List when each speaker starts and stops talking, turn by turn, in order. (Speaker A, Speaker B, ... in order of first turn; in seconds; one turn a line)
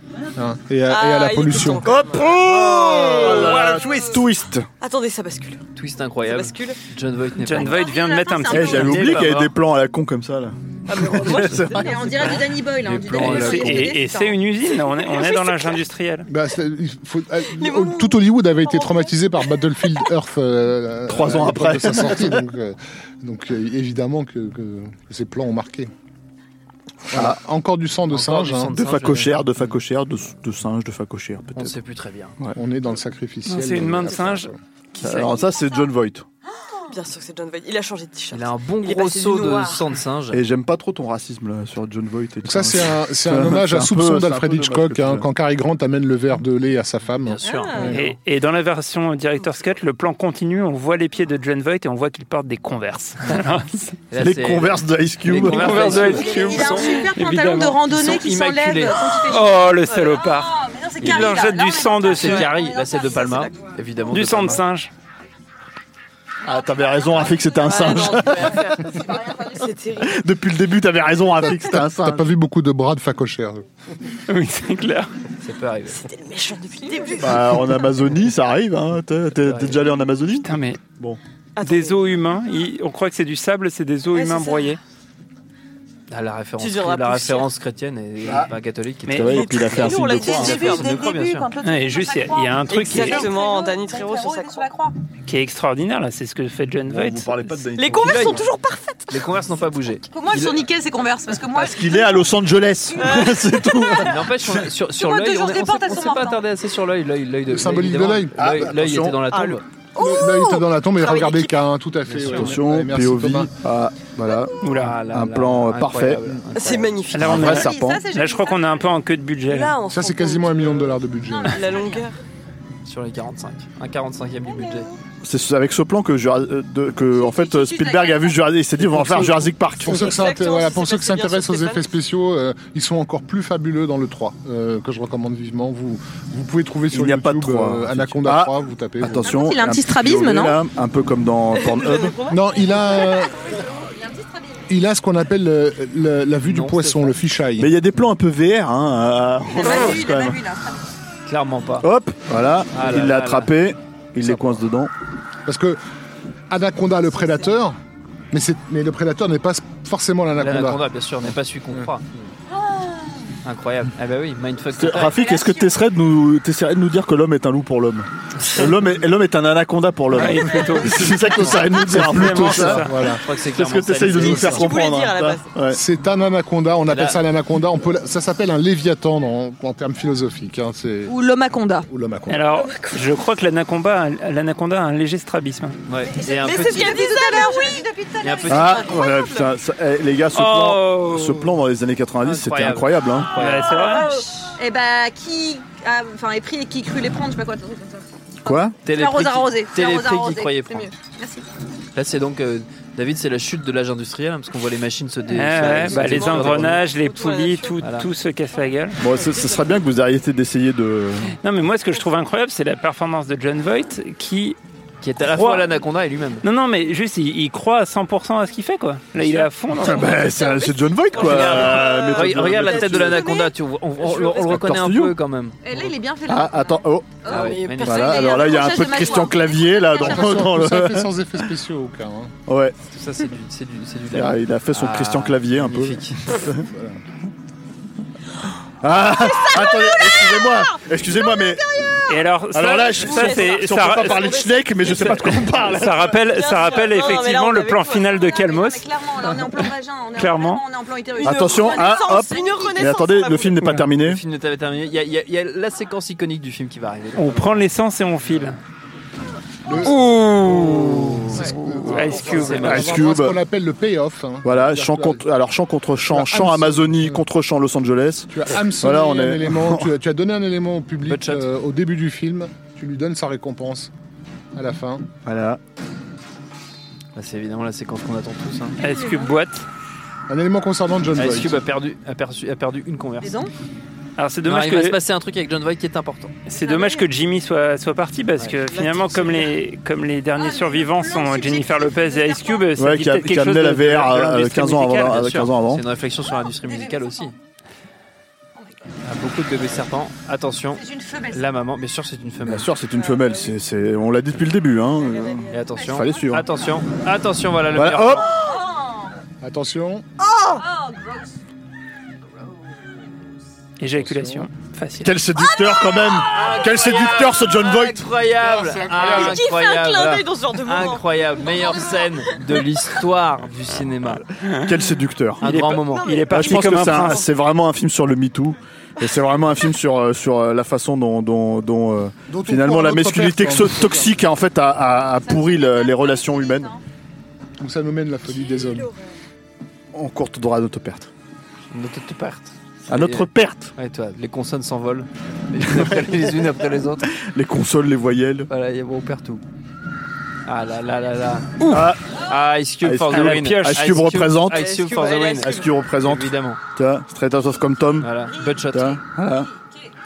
Speaker A: 0.3-2.0
Speaker B: 0.9-4.1
Speaker C: 1.8-4.7
Speaker D: 3.7-4.0
Speaker B: 4.8-5.6
Speaker E: 5.8-7.9
Speaker B: 6.2-6.8
Speaker F: 7.4-9.2
Speaker D: 7.7-9.0
Speaker C: 8.5-12.0
Speaker E: 8.6-9.5
Speaker B: 10.9-12.5
Speaker D: 11.7-14.3
Speaker E: 12.8-13.9
Speaker F: 13.2-16.3
Speaker B: 15.1-15.7
Speaker A: 16.3-25.9
Speaker B: 17.5-19.1
Speaker C: 21.1-22.4
Speaker A: 27.1-28.7
Speaker C: 27.1-27.4
Speaker E: 28.1-29.7
Speaker C: 28.7-31.8
Speaker E: 31.6-32.4
Speaker A: 32.5-34.5
Speaker F: 33.5-35.3
Speaker C: 35.0-36.2
Speaker B: 36.9-39.8
Speaker E: 38.3-40.4
Speaker C: 40.3-45.3
Speaker A: 42.4-48.0
Speaker E: 47.2-47.9
Speaker B: 47.5-48.0
Speaker F: 47.9-54.0
Speaker E: 54.1-56.8
Speaker C: 54.2-56.0
Speaker F: 55.4-57.8
Speaker D: 56.0-63.6
Speaker E: 57.9-59.0
Speaker F: 59.2-62.5
Speaker B: 59.9-60.3
Speaker E: 62.1-64.6
Speaker B: 63.2-63.5
Speaker F: 64.1-64.9
Speaker C: 66.4-68.7
Speaker B: 67.5-70.2
Speaker D: 68.7-69.7
Speaker C: 70.0-72.3
Speaker A: 71.4-73.6
Speaker F: 74.3-75.1
Speaker E: 75.4-76.1
Speaker B: 75.9-77.7
Speaker D: 76.9-77.2
Speaker C: 77.2-81.2
Speaker E: 79.4-79.8
Speaker F: 80.4-80.8
Speaker B: 81.5-82.0
Speaker F: 81.6-84.8
Speaker B: 84.1-84.8
Speaker E: 86.1-91.5
Speaker B: 86.6-87.5
Speaker C: 88.2-88.5
Speaker F: 89.1-89.5
Speaker C: 89.1-90.7
Speaker B: 89.2-91.0
Speaker D: 90.2-95.0
Speaker F: 91.6-93.3
Speaker B: 92.7-94.7
Speaker F: 95.2-97.5
Speaker C: 96.9-98.5
Speaker B: 97.7-99.3
Speaker E: 98.0-98.4
Speaker E: 99.1-100.6
Speaker D: 100.1-102.3
Speaker C: 101.5-104.7
Speaker D: 102.9-103.3
Speaker B: 103.0-104.0
Speaker E: 104.0-109.6
Speaker D: 104.9-106.4
Speaker A: 107.5-108.5
Speaker C: 108.3-109.2
Speaker B: 109.2-111.6
Speaker A: 110.0-113.5
Speaker D: 110.2-110.6
Speaker E: 112.1-112.5
Speaker C: 112.2-116.3
Speaker F: 114.6-115.0
Speaker E: 114.7-117.0
Speaker B: 116.5-117.5
Speaker F: 117.1-119.8
Speaker C: 117.2-118.0
Speaker D: 117.4-118.8
Speaker B: 119.5-122.2
Speaker A: 119.9-121.7
Speaker D: 121.3-122.0
Speaker E: 122.8-124.9
Speaker D: 124.5-124.9
Speaker C: 125.2-130.2
Speaker D: 127.1-128.4
Speaker A: 129.8-139.4
Speaker B: 129.9-131.9
Speaker C: 136.9-142.2
Speaker D: 139.2-140.6
Speaker B: 141.5-142.7
Speaker A: 142.3-143.5
Speaker D: 142.7-144.6
Speaker A: 144.7-147.7
Speaker E: 146.4-147.2
Speaker C: 147.6-150.4
Speaker D: 149.5-150.8
Speaker E: 151.3-151.9
Speaker C: 151.8-154.9
Speaker E: 152.7-153.5
Speaker A: 155.4-155.8
Speaker A: 156.5-157.8
Speaker A: 158.3-160.8
Speaker E: 160.4-162.2
Speaker D: 162.6-163.1
Speaker E: 163.4-165.2
Speaker C: 164.8-175.8
Speaker D: 165.1-165.7
Speaker F: 170.1-173.0
Speaker A: 172.1-173.2
Speaker E: 172.9-174.7
Speaker B: 174.1-175.5
Speaker A: 175.7-181.2
Speaker E: 176.9-177.2
Speaker D: 181.1-181.9
Speaker A: 181.9-182.4
Speaker F: 182.3-185.8
Speaker B: 182.7-182.9
Speaker E: 185.9-187.0
Speaker D: 186.1-189.5
Speaker B: 186.3-187.9
Speaker E: 188.2-188.8
Speaker C: 188.5-193.3
Speaker F: 190.3-191.5
Speaker E: 192.2-193.9
Speaker F: 193.3-194.1
Speaker D: 193.7-201.5
Speaker C: 198.4-198.8
Speaker E: 198.8-200.9
Speaker E: 201.9-206.8
Speaker F: 205.3-209.0
Speaker B: 205.7-207.8
Speaker E: 207.8-208.1
Speaker C: 209.0-211.3
Speaker B: 209.0-209.8
Speaker F: 211.4-214.6
Speaker E: 215.0-216.4
Speaker F: 215.2-215.7
Speaker F: 216.4-220.1
Speaker C: 219.8-223.3
Speaker D: 220.4-220.8
Speaker B: 220.5-223.5
Speaker E: 221.2-225.9
Speaker B: 224.1-224.5
Speaker C: 224.3-225.2
Speaker D: 225.6-230.5
Speaker C: 226.2-227.2
Speaker E: 227.2-228.2
Speaker B: 227.3-228.8
Speaker C: 227.8-231.1
Speaker A: 230.0-232.3
Speaker C: 232.5-232.8
Speaker E: 232.9-236.2
Speaker C: 234.1-236.7
Speaker A: 236.6-237.0
Speaker C: 238.8-241.8
Speaker D: 239.2-240.7
Speaker D: 241.2-242.1
Speaker F: 242.1-248.9
Speaker C: 242.5-246.2
Speaker B: 243.0-244.7
Speaker B: 246.2-248.2
Speaker D: 248.1-252.8
Speaker F: 250.2-250.6
Speaker B: 251.2-253.7
Speaker C: 251.2-254.2
Speaker E: 254.0-257.6
Speaker F: 257.1-258.6
Speaker A: 259.6-260.1
Speaker F: 259.8-262.9
Speaker C: 260.4-261.5
Speaker A: 261.3-265.2
Speaker E: 262.1-263.0
Speaker C: 262.6-263.4
Speaker C: 264.4-269.9
Speaker A: 266.1-267.2
Speaker A: 268.3-273.9
Speaker E: 271.0-271.5
Speaker A: 274.5-275.1
Speaker C: 275.2-275.6
Speaker E: 277.1-278.8
Speaker D: 278.8-279.3
Speaker F: 278.8-279.6
Speaker A: 280.3-281.6
Speaker E: 281.1-283.4
Speaker D: 283.2-283.5
Speaker F: 284.2-285.0
Speaker E: 284.4-286.3
Speaker F: 286.5-295.4
Speaker D: 286.5-287.1
Speaker B: 288.7-289.5
Speaker D: 290.4-292.7
Speaker C: 292.8-295.8
Speaker E: 295.1-297.3
Speaker D: 296.3-297.3
Speaker E: 299.0-302.7
Speaker D: 300.7-301.4
Speaker C: 302.4-306.4
Speaker B: 302.9-303.5
Speaker B: 305.0-305.8
Speaker E: 305.5-308.3
Speaker D: 305.7-306.4
Speaker C: 307.7-308.4
Speaker D: 308.2-309.1
Speaker A: 309.4-310.1
Speaker D: 310.4-311.3
Speaker F: 313.8-315.1
Speaker A: 313.9-314.4
Speaker C: 315.0-318.1
Speaker D: 315.4-317.3
Speaker E: 316.4-324.2
Speaker B: 318.9-321.8
Speaker F: 324.4-324.7
Speaker C: 324.6-325.4
Speaker E: 325.4-326.1
Speaker F: 325.4-327.2
Speaker B: 325.6-327.2
Speaker C: 326.3-336.7
Speaker A: 332.3-334.1
Speaker D: 335.2-336.8
Speaker A: 337.6-338.9
Speaker B: 338.3-339.1
Speaker C: 339.9-341.1
Speaker E: 341.7-347.1
Speaker C: 342.9-343.7
Speaker C: 345.6-346.3
Speaker C: 347.0-348.5
Speaker E: 348.5-349.4
Speaker E: 350.4-356.6
Speaker F: 351.6-351.9
Speaker C: 351.7-352.0
Speaker C: 352.8-354.7
Speaker F: 353.1-354.0
Speaker B: 354.5-355.8
Speaker C: 355.4-358.1
Speaker E: 358.0-359.0
Speaker C: 358.7-359.5